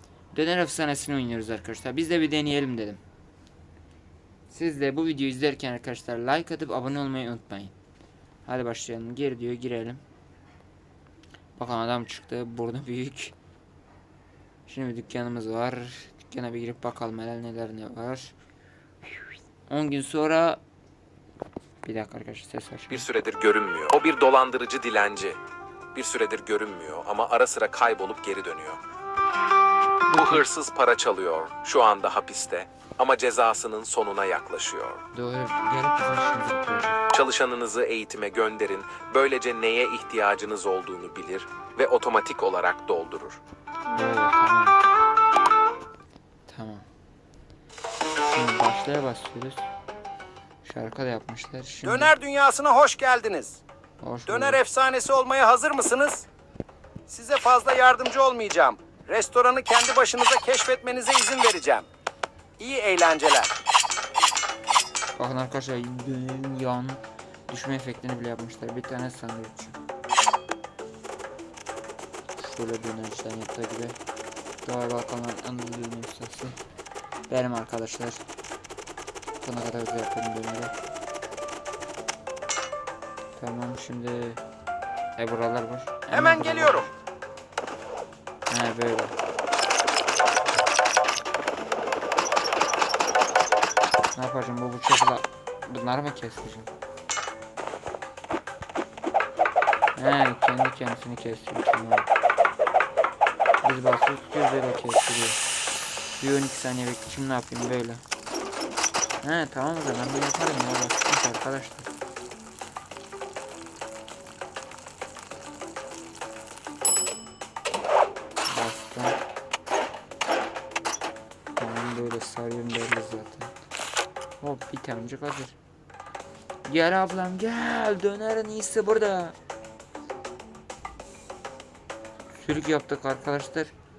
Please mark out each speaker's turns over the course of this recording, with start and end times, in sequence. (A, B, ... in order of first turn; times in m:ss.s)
0:00.3-0:03.0 A
0:04.5-0:07.7 A
0:08.4-0:10.0 A
0:11.6-0:13.3 A
0:14.7-0:18.3 A
0:19.7-0:20.6 A
0:21.8-0:23.1 A
0:22.9-0:25.4 B
0:25.9-0:28.8 B
0:30.0-0:30.5 A
0:30.1-0:35.0 B
0:35.1-0:37.0 A
0:37.1-0:43.4 B
0:43.9-0:44.8 A
0:46.5-0:46.8 A
0:48.2-0:49.7 A
0:50.6-0:52.1 A
0:51.8-0:53.6 C
0:54.0-0:54.6 A
0:54.3-0:56.2 C
0:57.1-1:01.8 C
1:02.6-1:03.5 C
1:05.1-1:09.8 A
1:12.4-1:14.0 A
1:14.6-1:16.5 A
1:17.3-1:18.2 A
1:19.4-1:20.7 A
1:23.4-1:24.4 A
1:25.2-1:26.9 A
1:26.1-1:26.9 C
1:28.5-1:29.2 A
1:34.1-1:36.7 A
1:40.0-1:42.1 A
1:43.6-1:45.4 A
1:46.2-1:48.0 A
1:49.2-1:51.9 A
1:58.5-1:59.2 A
2:01.6-2:03.5 A
2:04.4-2:05.6 A
2:06.7-2:09.4 A
2:12.3-2:13.7 A